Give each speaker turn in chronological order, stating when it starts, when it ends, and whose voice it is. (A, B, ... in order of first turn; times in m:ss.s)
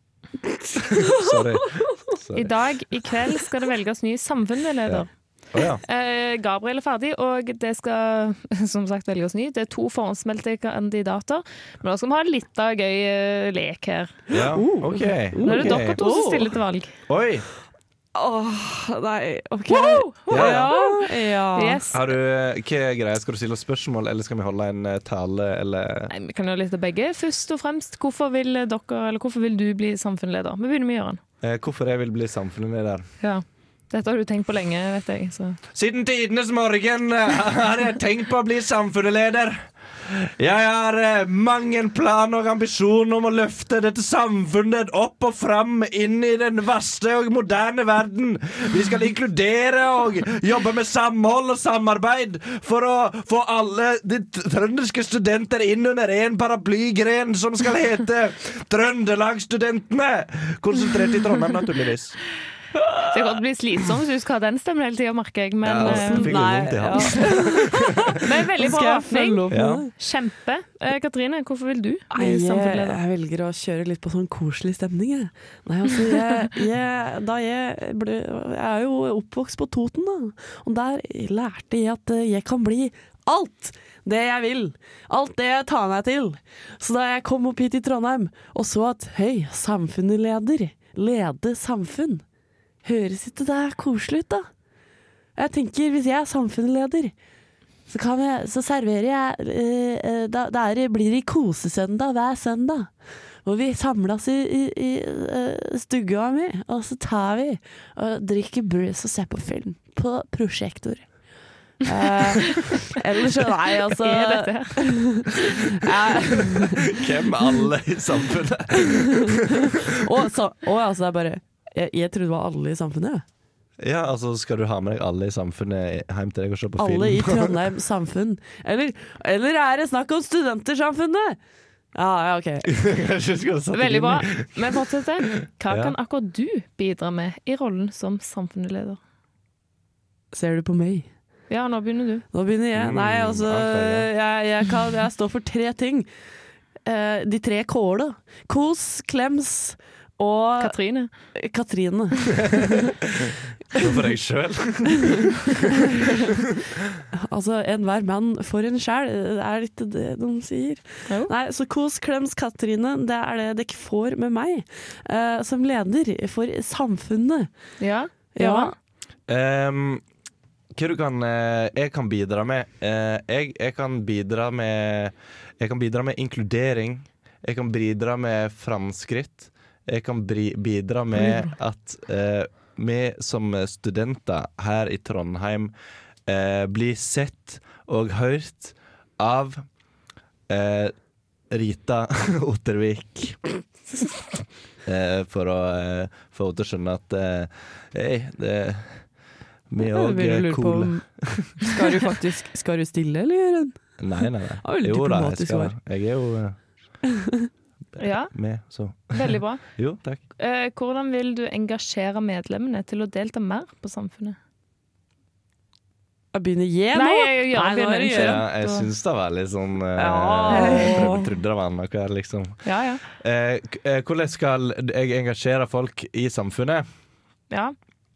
0:00.8-0:01.8 A
0:00.8-0:02.6 B
0:02.4-0:05.1 C
0:04.9-0:05.8 B
0:05.8-0:14.2 C
0:14.3-0:16.0 B
0:14.3-0:16.6 A
0:15.4-0:16.9 C
0:17.1-0:17.5 B
0:18.2-0:21.8 A
0:19.7-0:22.0 C
0:20.3-0:20.7 B
0:21.9-0:26.1 B
0:26.1-0:31.2 C
0:31.4-0:33.1 B
0:33.2-0:35.6 C
0:35.7-1:02.2 B
1:03.1-1:07.2 C
1:05.6-1:08.1 B
1:05.8-1:09.9 A
1:08.2-1:13.0 C
1:09.5-1:09.8 B
1:12.1-1:32.2 A
1:32.8-1:34.5 A
1:35.4-1:37.1 A
1:37.9-1:42.9 A
1:43.4-1:51.1 A
1:51.8-1:56.9 A
1:54.0-1:55.0 C
1:56.9-1:59.9 B
1:59.6-2:03.2 A
2:03.8-2:07.7 B
2:06.8-2:11.4 A
2:11.9-2:12.7 A
2:12.6-2:14.8 B
2:13.7-2:19.0 C
2:15.7-2:16.0 B
2:20.3-2:21.1 A
2:21.5-2:22.3 C
2:22.3-2:26.1 A
2:22.7-2:24.1 B
2:26.8-2:32.8 A
2:30.6-2:31.1 C
2:33.2-2:35.3 B
2:36.0-2:36.3 A
2:37.1-2:47.5 A
2:41.1-2:41.3 C
2:47.8-2:48.7 C
2:48.4-2:48.7 A
2:49.3-2:50.0 B
2:50.8-3:05.7 B
3:06.3-3:09.6 B
3:10.5-3:10.9 B
3:11.5-3:13.4 B
3:14.8-3:19.1 B
3:19.7-3:21.6 B
3:19.8-3:24.0 A
3:24.0-3:26.6 B
3:24.6-3:25.7 A
3:28.0-3:28.3 C
3:28.2-3:30.2 B
3:29.1-3:29.6 C
3:30.4-3:34.4 C
3:36.3-3:38.4 A
3:36.9-3:38.9 C
3:38.1-3:46.8 B
3:40.0-3:41.3 A
3:40.5-3:41.1 C
3:42.6-3:43.0 C